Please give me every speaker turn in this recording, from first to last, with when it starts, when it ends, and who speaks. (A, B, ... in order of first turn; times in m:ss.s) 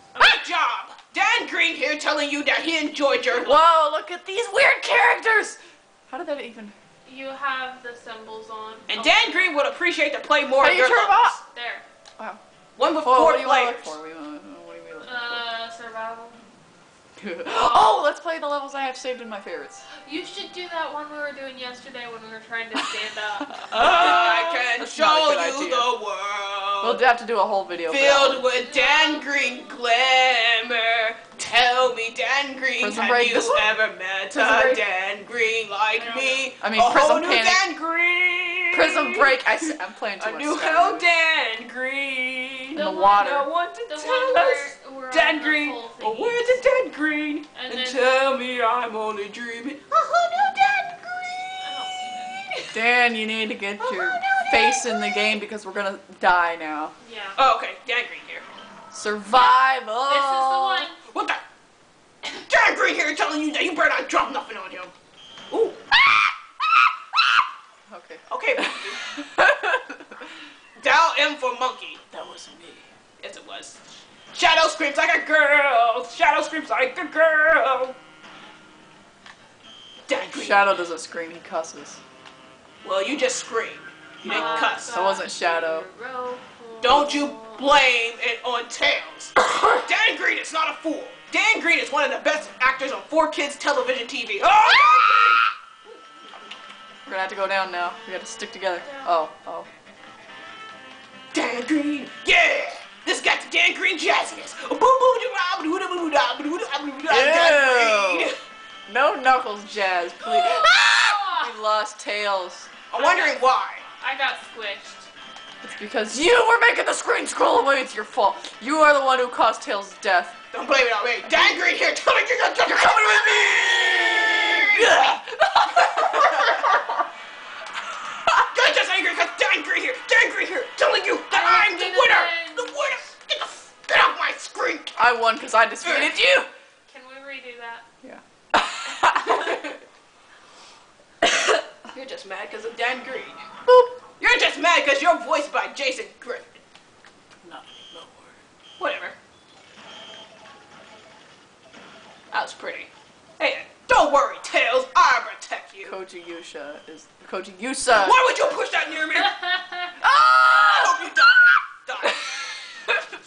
0:00.1-0:00.4 A
0:00.2-0:03.6 B
0:03.3-0:05.6 C
0:06.1-0:06.8 C
0:07.0-0:09.7 A
0:08.9-0:11.4 B
0:10.6-0:11.4 C
0:11.5-0:11.9 A
0:12.8-0:14.0 B
0:13.0-0:15.4 C
0:15.0-0:16.4 A
0:17.2-0:19.8 C
0:17.5-0:18.0 A
0:20.0-0:24.5 A
0:23.6-0:25.9 C
0:23.7-0:27.0 B
0:26.8-0:28.5 C
0:27.9-0:52.8 B
0:28.5-0:29.9 A
0:32.8-0:33.7 C
0:34.4-0:34.8 C
0:35.9-0:36.5 A
0:36.6-0:37.7 C
0:38.7-0:41.1 C
0:42.8-0:46.6 A
0:42.8-0:43.5 C
0:47.5-0:48.1 A
0:51.6-0:52.3 A
0:52.7-0:56.9 C
0:53.8-0:55.2 B
0:57.0-0:57.4 A
0:57.4-0:58.4 B
0:58.9-1:00.9 C
0:59.3-1:01.0 A
1:01.0-1:01.4 B
1:02.2-1:04.9 B
1:05.5-1:05.9 B
1:07.9-1:10.3 C
1:08.3-1:09.0 B
1:10.8-1:12.0 B
1:12.1-1:12.9 C
1:13.2-1:13.8 B
1:14.3-1:18.0 B
1:20.1-1:20.7 B
1:20.1-1:22.0 C
1:22.8-1:25.2 B
1:24.2-1:25.9 C
1:24.3-1:27.8 A
1:26.8-1:35.4 B
1:34.7-1:35.4 A
1:37.1-1:39.7 C
1:38.8-1:39.2 A
1:41.3-1:48.4 B
1:47.1-1:48.3 C
1:48.9-1:52.7 C
1:50.2-1:51.2 B
1:50.4-1:51.5 A
1:52.9-1:53.8 B
1:53.0-1:53.4 A
1:54.0-1:55.1 A
1:55.6-2:00.4 C
2:00.5-2:04.9 B
2:01.3-2:01.6 C
2:02.6-2:06.8 C
2:05.8-2:06.8 B
2:08.5-2:15.0 B
2:11.3-2:12.9 A
2:15.0-2:16.5 C
2:15.8-2:16.1 B
2:16.9-2:17.8 A
2:18.0-2:19.6 C
2:19.2-2:19.8 B
2:21.9-2:23.4 B
2:23.7-2:23.9 C
2:24.2-2:26.6 B
2:27.4-2:28.3 B
2:28.8-2:29.2 B
2:32.3-2:35.9 B
2:35.8-2:38.3 C
2:37.9-2:39.4 B
2:39.2-2:39.9 A
2:40.0-2:41.2 C
2:40.6-2:42.2 B
2:42.3-2:43.0 C